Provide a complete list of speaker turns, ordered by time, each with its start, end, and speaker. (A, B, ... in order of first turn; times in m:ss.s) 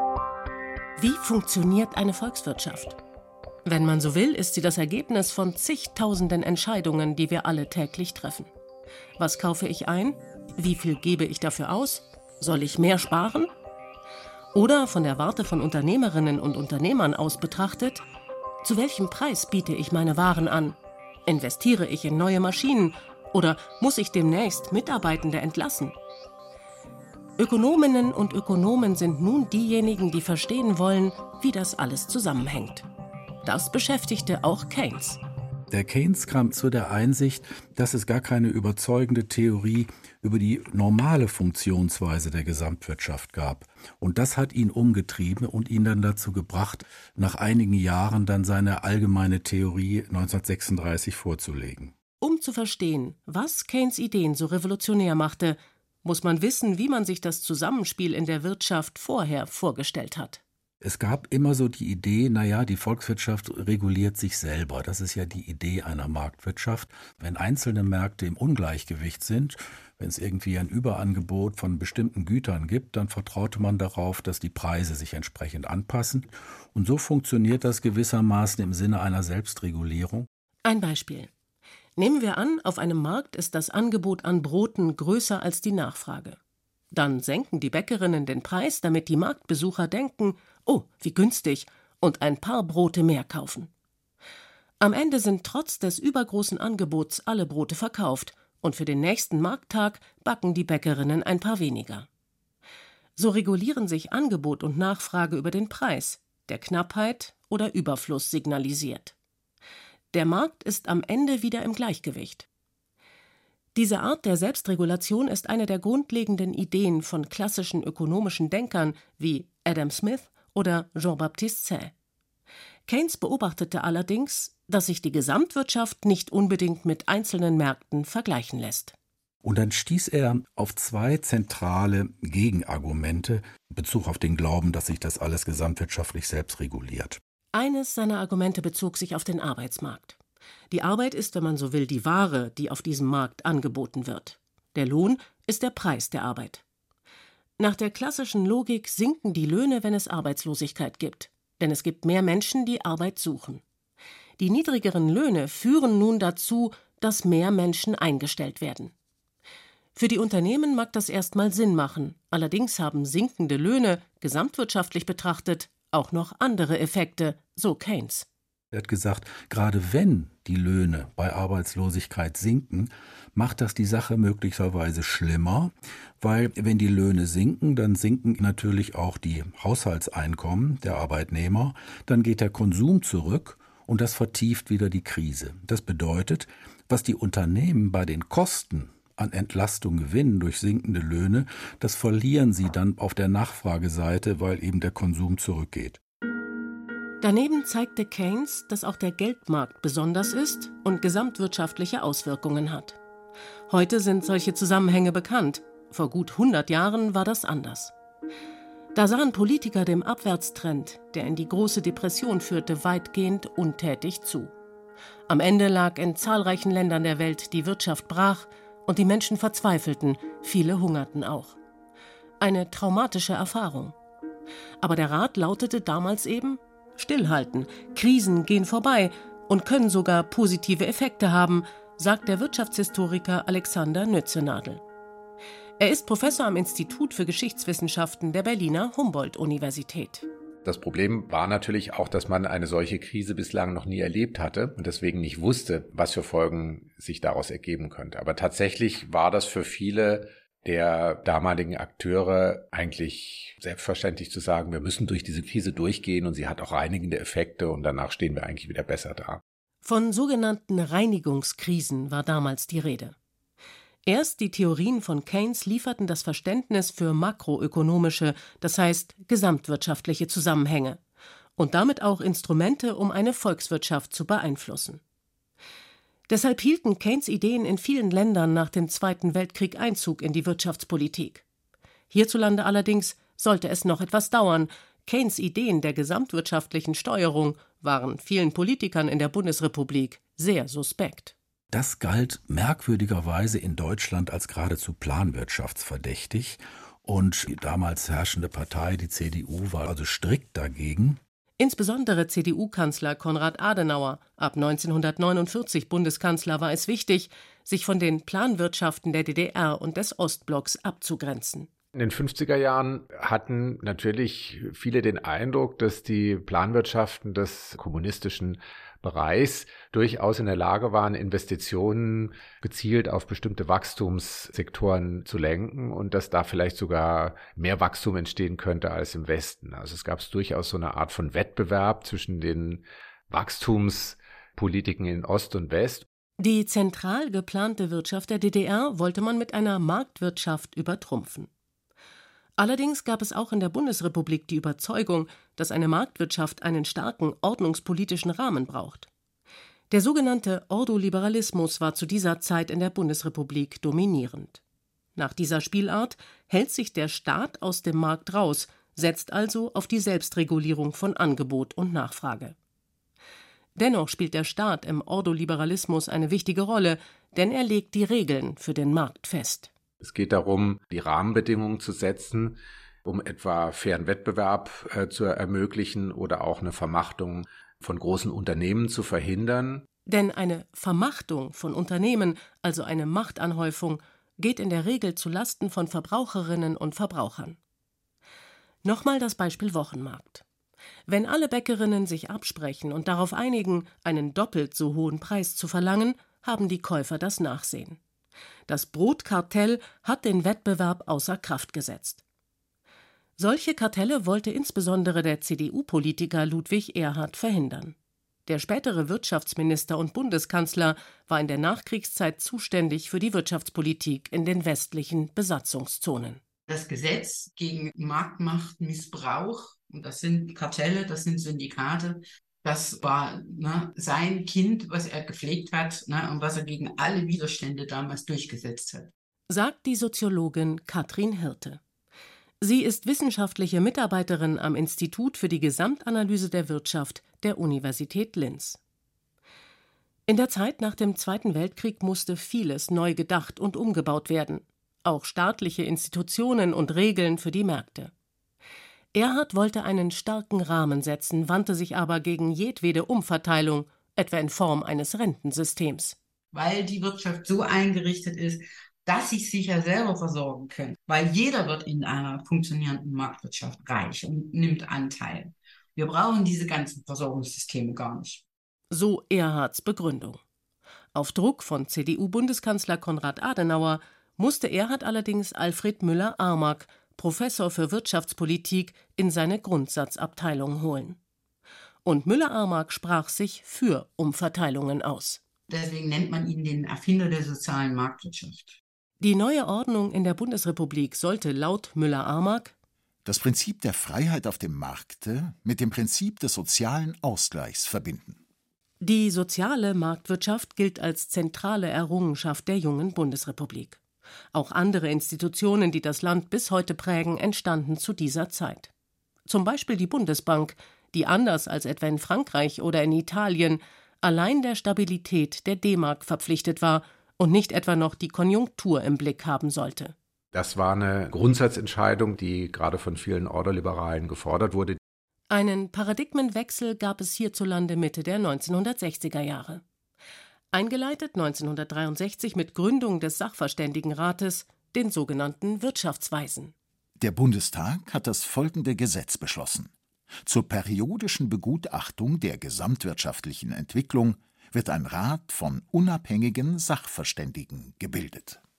0:01.0-0:03.0 A
0:03.6-0:08.5 A
0:09.2-0:13.5 A
0:14.5-0:18.0 A
0:18.6-0:26.0 A
0:27.4-0:32.9 A
0:33.4-0:35.2 A
0:35.7-0:51.9 B
0:52.2-1:00.4 A
1:00.8-1:20.3 B
1:20.6-1:21.3 A
1:22.0-1:26.4 A
1:26.9-1:33.7 A
1:34.8-1:42.1 A
1:43.2-1:49.1 A
1:50.1-1:52.5 A
1:53.8-2:01.9 A
2:02.9-2:08.9 A
2:09.4-2:17.2 B
2:17.5-2:20.2 A
2:20.7-2:26.6 A
2:27.6-2:33.6 A
2:34.4-2:38.9 A
2:40.0-2:48.3 A
2:48.7-3:16.0 B
3:17.2-3:23.0 A
3:23.7-3:27.9 A
3:29.0-3:34.5 A
3:35.3-3:41.6 A
3:42.4-3:44.0 A
3:44.8-3:54.8 A
3:55.8-4:00.3 A
4:00.6-4:19.4 C
4:19.8-4:23.2 A
4:24.1-4:31.0 A
4:31.6-4:35.0 A
4:36.3-4:41.4 A
4:42.1-4:51.3 A
4:51.7-5:01.2 B
5:01.6-5:11.7 A
5:12.0-5:36.1 C
5:36.4-5:41.5 A
5:42.6-5:49.1 A
5:49.9-5:54.6 A
5:55.2-6:02.6 A
6:03.8-6:09.7 A
6:10.0-6:19.8 C
6:20.1-6:27.6 A
6:28.8-6:30.4 A
6:31.1-6:38.0 A
6:38.7-6:42.2 A
6:43.4-6:48.0 A
6:48.5-6:56.4 A
6:56.7-7:09.1 D
7:09.5-7:11.8 A
7:12.6-7:18.8 A
7:20.3-7:28.1 A
7:29.1-7:36.2 A
7:36.5-7:48.4 D
7:48.9-7:50.4 A
7:51.1-8:01.2 A
8:02.0-8:05.4 A
8:05.7-8:08.8 D
8:09.2-8:12.7 A
8:13.2-8:18.4 E
8:19.0-8:24.0 A
8:24.5-8:28.9 A
8:29.5-8:40.2 A
8:40.5-8:45.0 C
8:45.5-8:49.8 A
8:50.7-8:56.7 A
8:57.2-8:59.9 E
9:00.4-9:08.6 E